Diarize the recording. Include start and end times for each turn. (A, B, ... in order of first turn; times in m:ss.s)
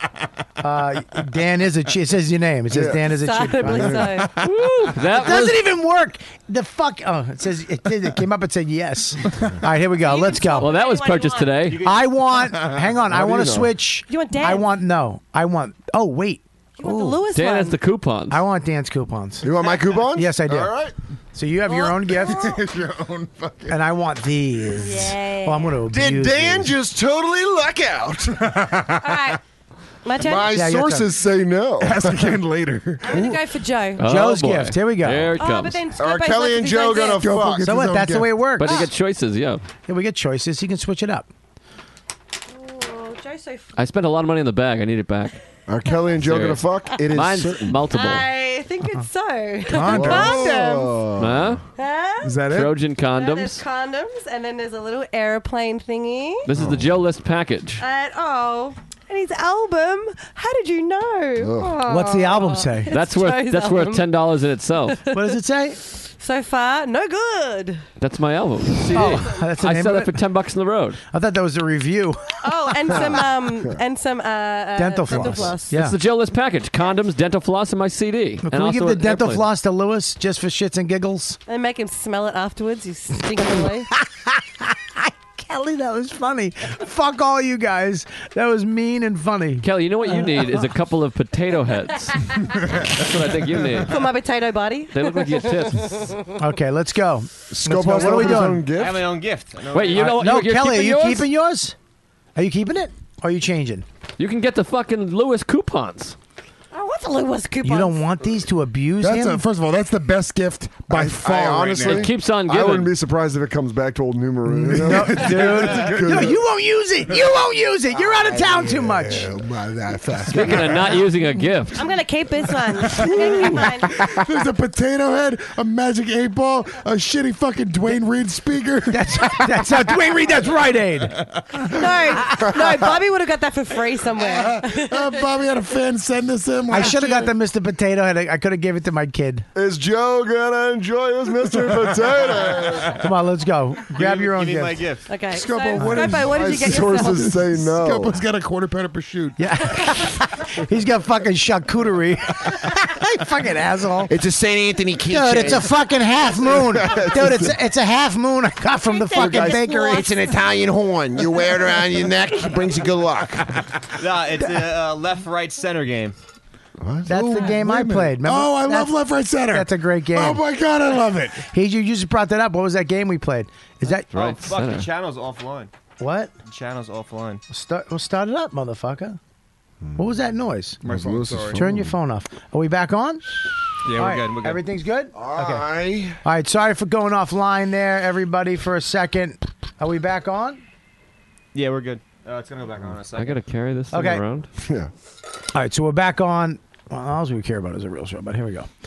0:00.6-0:04.1 A
0:02.7-0:04.0 B
0:03.1-0:04.3 C
0:04.0-0:04.9 D
0:04.4-0:05.6 E
0:05.1-0:10.8 A
0:10.0-0:11.8 C
0:10.6-0:11.8 E
0:11.6-0:12.2 F
0:11.8-0:17.2 A
0:13.1-0:13.7 B
0:14.1-0:14.7 C
0:16.8-0:17.8 C
0:17.3-0:18.4 E
0:18.3-0:20.7 A
0:19.4-0:20.9 B
0:21.3-0:22.6 A
0:21.7-0:22.6 C
0:22.2-0:23.8 D
0:23.7-0:26.8 A
0:24.7-0:25.8 C
0:25.9-0:28.6 B
0:28.4-0:29.4 D
0:29.0-0:29.4 C
0:30.0-0:30.6 C
0:30.2-0:32.4 B
0:30.5-0:31.1 A
0:31.8-0:33.2 D
0:33.0-0:34.0 C
0:34.0-0:35.8 E
0:34.0-0:35.4 A
0:35.4-0:37.3 C
0:36.0-0:37.7 B
0:37.2-0:38.6 D
0:37.6-0:38.9 A
0:38.6-0:39.6 E
0:39.9-0:41.3 A
0:42.5-0:43.8 C
0:43.8-0:45.4 E
0:45.7-0:47.8 B
0:46.2-0:48.2 E
0:47.9-0:51.0 C
0:49.7-0:50.5 D
0:49.9-0:51.6 B
0:51.2-0:51.6 E
0:51.8-0:52.5 C
0:52.2-0:52.8 D
0:52.5-0:53.6 E
0:53.0-0:56.5 C
0:56.4-0:57.8 E
0:56.6-0:56.8 B
0:57.8-1:04.2 C
1:01.4-1:01.8 B
1:01.8-1:03.0 A
1:02.9-1:05.0 E
1:04.9-1:05.3 C
1:05.1-1:05.8 A
1:05.9-1:07.8 C
1:08.0-1:11.0 E
1:08.9-1:10.2 A
1:11.1-1:13.2 A
1:12.4-1:15.8 C
1:12.9-1:13.8 B
1:14.8-1:16.0 A
1:15.1-1:15.5 B
1:15.7-1:19.4 E
1:18.4-1:21.4 A
1:21.5-1:23.9 C
1:23.6-1:30.6 A
1:29.6-1:34.0 E
1:33.8-1:36.3 C
1:34.9-1:36.0 E
1:36.4-1:38.7 A
1:37.5-1:39.1 B
1:38.0-1:40.2 F
1:39.7-1:41.3 E
1:39.9-1:41.8 A
1:42.4-1:43.9 A
1:44.2-1:46.2 E
1:46.7-1:48.0 C
1:47.6-1:49.4 A
1:49.0-1:52.1 D
1:50.9-1:56.4 B
1:51.8-1:53.0 E
1:54.6-1:56.2 D
1:54.7-1:59.3 A
1:58.0-2:01.0 B
2:00.3-2:01.8 E
2:00.4-2:00.6 D
2:01.8-2:04.1 C
2:02.9-2:09.7 D
2:08.9-2:11.3 A
2:11.7-2:15.3 C
2:12.4-2:12.9 B
2:14.3-2:17.3 D
2:16.7-2:19.5 A
2:19.6-2:23.0 B
2:21.7-2:22.7 D
2:23.0-2:24.9 A
2:24.0-2:25.1 F
2:25.1-2:27.4 C
2:25.3-2:29.4 D
2:25.8-2:26.1 A
2:26.1-2:28.2 B
2:29.4-2:34.2 A
2:34.1-2:35.6 G
2:35.0-2:35.7 B
2:35.1-2:40.1 A
2:36.4-2:37.6 B
2:39.0-2:40.2 C
2:39.1-2:40.2 B
2:39.6-2:43.2 G
2:41.1-2:43.5 B
2:44.0-2:46.2 F
2:46.8-2:47.6 B
2:47.1-2:50.4 A
2:47.1-2:51.5 D
2:51.4-2:54.1 A
2:54.1-2:54.9 E
2:54.1-2:55.7 F
2:56.0-2:56.3 A
2:56.5-2:57.4 F
2:57.5-2:59.2 A
2:59.8-3:00.1 B
3:00.0-3:00.8 A
3:00.8-3:01.7 D
3:00.8-3:02.0 B
3:01.5-3:03.2 A
3:03.8-3:04.6 F
3:04.0-3:05.6 A
3:05.2-3:06.2 B
3:06.2-3:10.6 A
3:11.5-3:13.4 F
3:13.2-3:14.5 E
3:13.9-3:14.2 A
3:14.6-3:14.9 B
3:15.5-3:18.7 A